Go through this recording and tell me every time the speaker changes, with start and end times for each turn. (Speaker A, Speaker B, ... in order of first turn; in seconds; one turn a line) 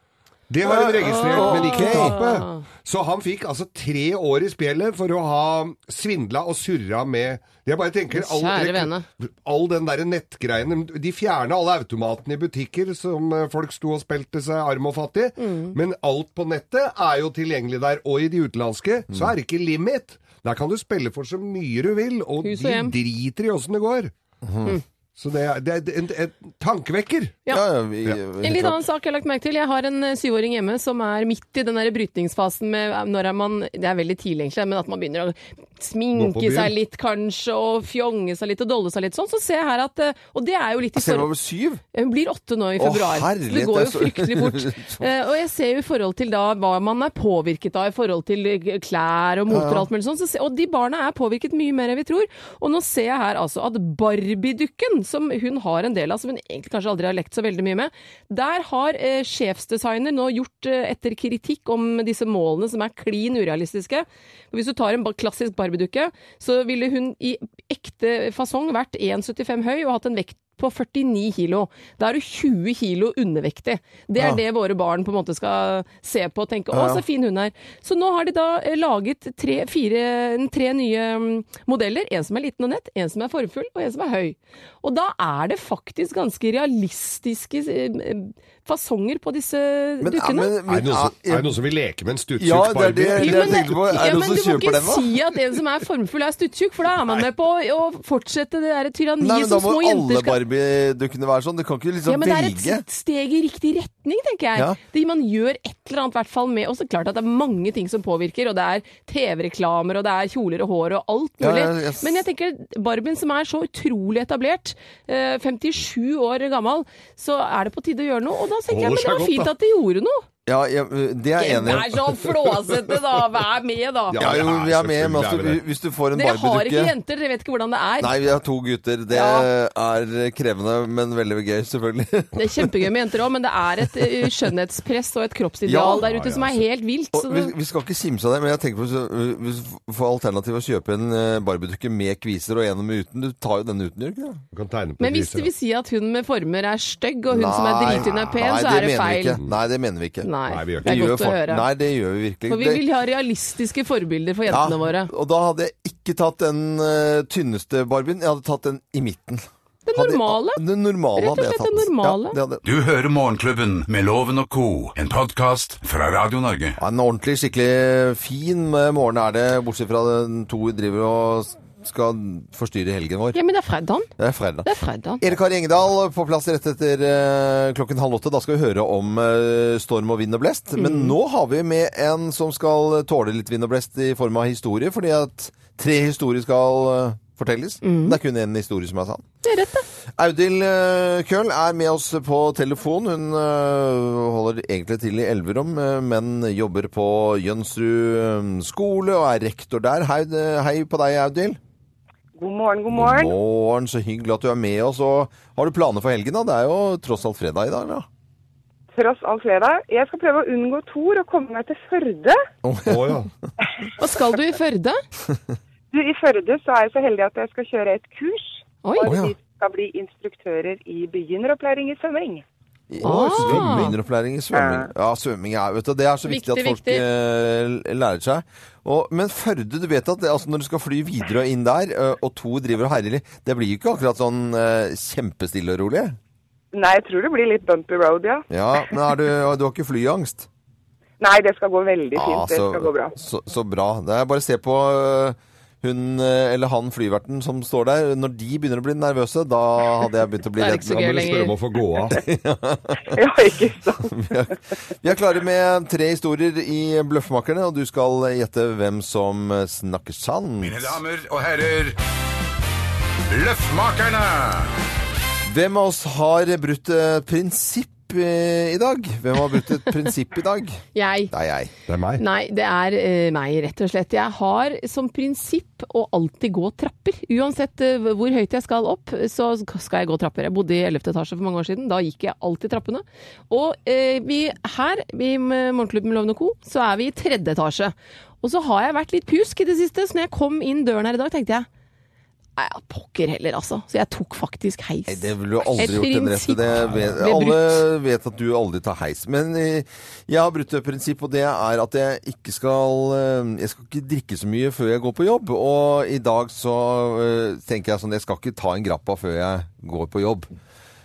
Speaker A: 0.5-24.1
Speaker B: 0.6-2.2
Speaker C: 1.0-2.6
Speaker C: 8.1-9.0
Speaker C: 15.4-15.8
Speaker C: 22.4-22.9
Speaker B: 24.4-24.8
Speaker A: 25.1-27.4
Speaker B: 27.5-28.8
Speaker C: 28.4-41.3
Speaker A: 36.1-36.7
Speaker B: 40.9-41.8
Speaker C: 41.9-90.5
Speaker B: 42.8-45.1
Speaker B: 49.5-49.9
Speaker B: 76.7-77.0
Speaker B: 90.0-91.5
Speaker A: 90.7-94.0
Speaker B: 92.4-95.1
Speaker C: 93.2-100.4
Speaker A: 97.0-97.3
Speaker B: 99.2-102.8
Speaker C: 102.0-120.2
Speaker B: 104.5-104.8
Speaker B: 111.4-112.2
Speaker A: 118.7-119.5
Speaker B: 120.5-122.0
Speaker C: 121.3-124.2
Speaker A: 124.1-125.6
Speaker B: 124.2-126.9
Speaker C: 126.1-128.1
Speaker B: 128.0-132.7
Speaker C: 129.1-129.5
Speaker C: 132.3-137.5
Speaker B: 135.7-136.1
Speaker A: 136.0-136.6
Speaker B: 137.1-144.4
Speaker A: 144.5-145.5
Speaker C: 145.0-149.4
Speaker B: 147.3-152.8
Speaker C: 150.2-151.7
Speaker A: 150.5-151.2
Speaker C: 152.5-155.1
Speaker B: 154.5-162.6
Speaker C: 159.8-160.6
Speaker C: 161.2-162.4
Speaker D: 162.6-166.8
Speaker B: 166.8-173.4
Speaker C: 173.3-174.1
Speaker B: 174.2-189.2
Speaker C: 174.6-175.2
Speaker C: 180.8-181.1
Speaker C: 187.8-188.2
Speaker C: 189.4-189.8
Speaker B: 190.1-201.6
Speaker E: 202.4-203.3
Speaker B: 202.9-208.1
Speaker E: 208.9-212.4
Speaker B: 212.6-213.2
Speaker A: 212.9-213.3
Speaker C: 214.0-215.0
Speaker E: 215.9-222.4
Speaker C: 218.8-219.1
Speaker B: 219.0-219.3
Speaker B: 222.9-236.2
Speaker C: 223.0-223.9
Speaker A: 223.4-223.9
Speaker E: 224.5-224.9
Speaker C: 226.3-227.0
Speaker E: 236.7-238.4
Speaker B: 238.5-240.5
Speaker E: 241.2-243.1
Speaker B: 242.1-251.2
Speaker C: 250.6-251.6
Speaker A: 250.9-252.2
Speaker B: 252.1-253.2
Speaker E: 253.1-254.1
Speaker B: 254.0-261.0
Speaker D: 260.6-262.0
Speaker D: 263.3-264.7
Speaker B: 265.5-271.7
Speaker C: 270.9-271.3
Speaker A: 271.9-272.2
Speaker C: 272.2-291.7
Speaker C: 292.6-297.8
Speaker B: 295.1-310.5